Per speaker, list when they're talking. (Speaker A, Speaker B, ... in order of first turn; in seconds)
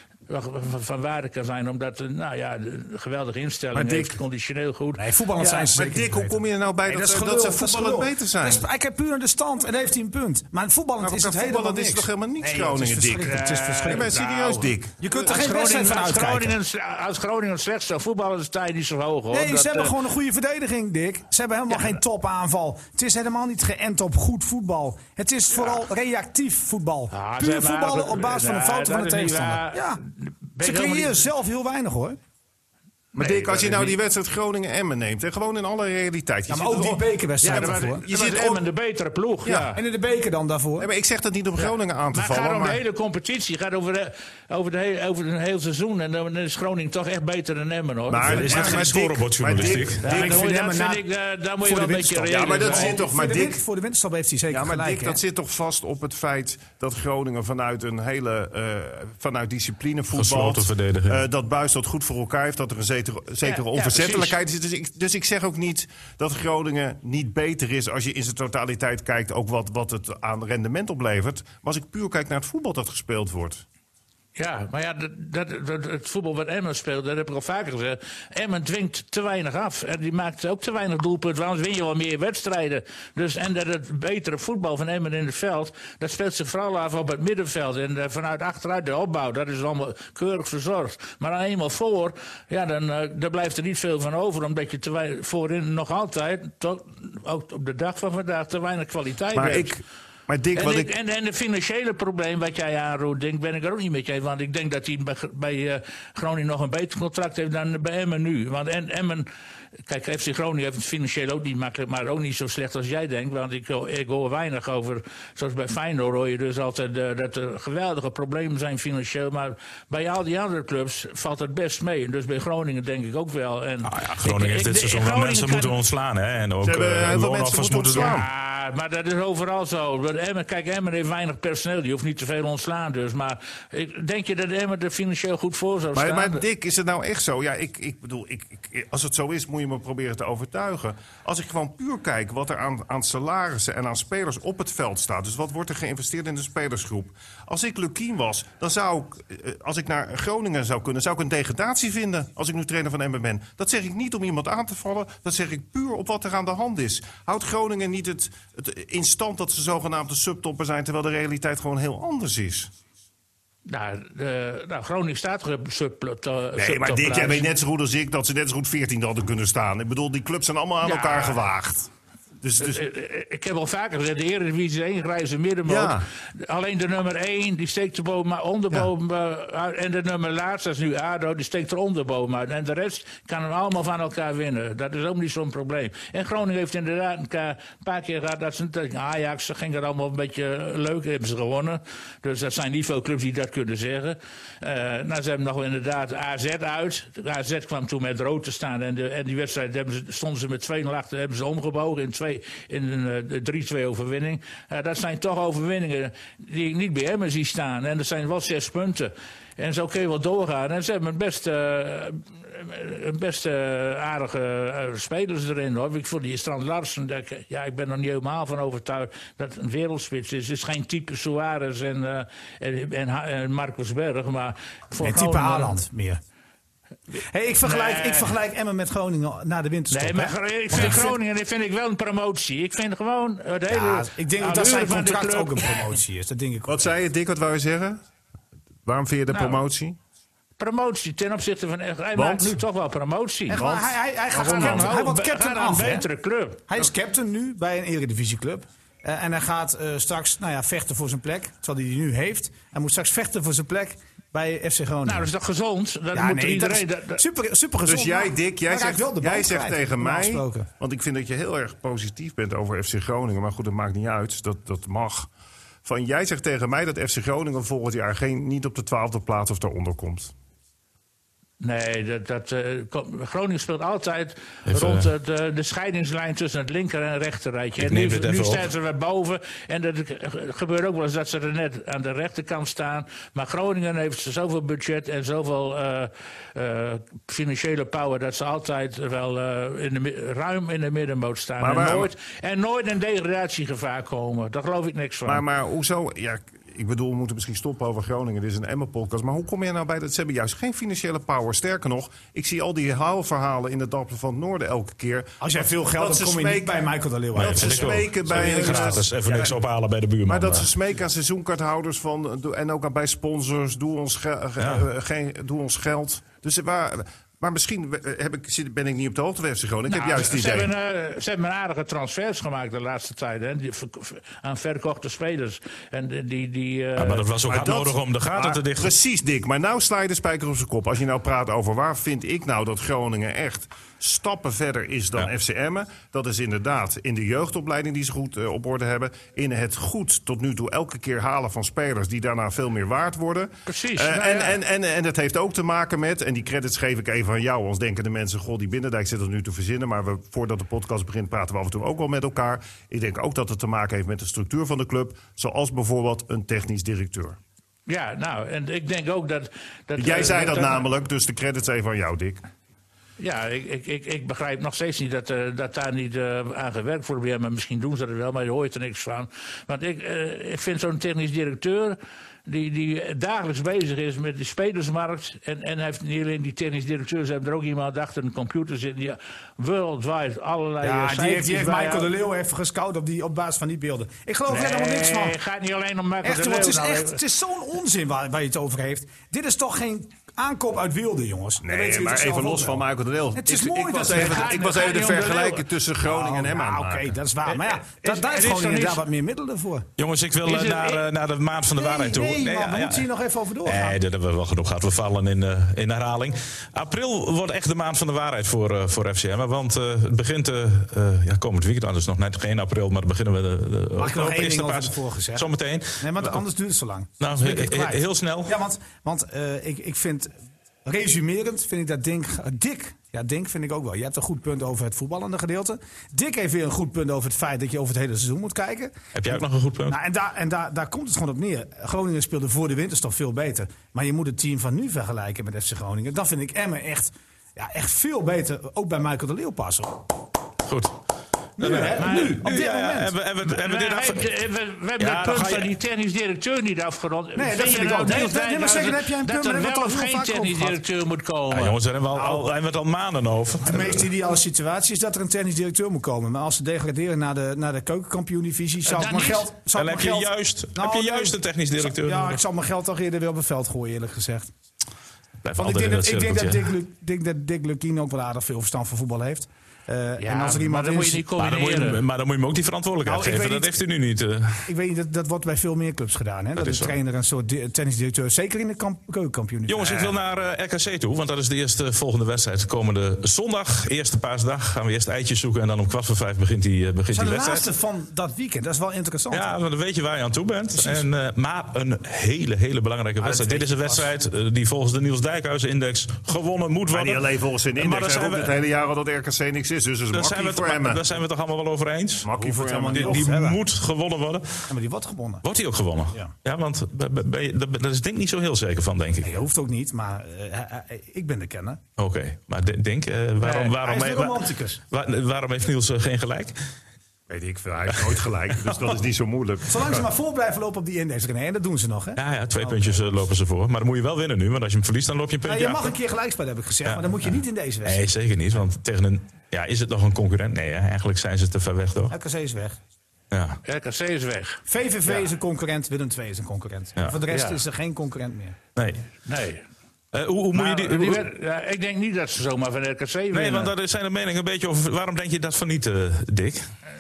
Speaker A: 0.3-5.7, 13.3-19.9, 27.1-31.2, 33.2-34.0, 37.4-39.8, 41.6-48.8, 50.0-53.0, 63.4-64.4, 74.4-99.8, 100.5-109.3, 109.9-125.8, 127.9-136.4, 163.7-167.5, 170.8-171.4, 172.6-225.8, 227.6-228.3, 229.9-235.8, 239.3-239.6, 240.6-243.6, 244.3-246.6, 255.1-257.2, 271.6-295.4, 319.9-327.3, 343.7-344.6, 357.9-360.9, 363.2-382.1, 384.5-387.2, 394.1-395.7, 397.5-399.0, 400.4-401.1, 442.0-442.4, 443.4-451.8, 458.9-459.5, 470.2-472.0, 533.6-535.2, 537.3-537.6, 539.3-539.6, 540.5-543.7
Speaker B: 3.8-4.2, 5.6-8.7, 11.0-15.1, 33.1-38.6, 39.5-39.8, 40.8-42.8, 48.1-50.5, 52.3-53.6, 54.5-73.6, 99.3-100.9, 126.6-128.3, 135.9-162.7, 166.6-171.9, 172.4-172.8, 175.7-176.1, 236.7-238.0, 238.9-240.0, 242.2-242.6, 243.5-244.9, 257.9-265.3, 265.9-270.3, 291.6-292.1, 295.3-306.8, 307.4-309.6, 310.3-320.7, 327.5-357.4, 360.0-362.4, 391.6-397.1, 496.9-501.1, 502.2-503.3, 517.3-520.1
Speaker C: 5.0-14.2, 15.0-16.6, 19.3-30.0, 30.6-32.2, 33.3-33.6, 36.5-38.1, 39.7-40.9, 48.3-49.0, 50.0-51.0, 51.6-55.2, 225.0-226.2, 227.2-231.2, 233.7-236.9, 243.5-246.1, 246.7-255.3, 256.1-260.7, 305.4-309.1, 380.8-385.4, 386.2-394.6, 396.0-399.9, 401.8-404.0, 414.0-420.3, 420.9-440.1, 441.6-443.1, 447.4-450.8, 452.1-452.5, 453.6-464.5, 465.6-471.2, 473.1-473.8, 474.7-480.1, 487.1-489.6, 490.7-491.1, 493.2-494.1, 502.3-503.6, 504.7-505.4, 509.2-511.8, 513.4-514.8, 519.7-523.2, 525.5-528.1, 532.1-532.8, 534.7-538.6
Speaker D: 48.2-50.0, 60.1-61.3, 123.8-128.2, 274.7-275.1, 277.8-278.7, 307.4-310.7, 314.6-314.9, 327.0-328.9, 400.0-403.1, 403.6-416.4, 417.2-418.6, 429.1-430.0, 440.6-441.0, 441.6-444.3, 445.0-445.7, 451.5-454.1, 459.7-462.4, 465.4-466.7, 471.4-474.7, 476.6-476.9, 479.7-487.7, 489.3-498.6, 500.1-502.3, 502.9-504.7, 505.4-509.4, 512.0-516.6, 518.6-518.9, 522.2-526.0, 526.9-532.1, 533.3-533.6, 538.8-539.1, 540.1-541.3, 543.3-546.7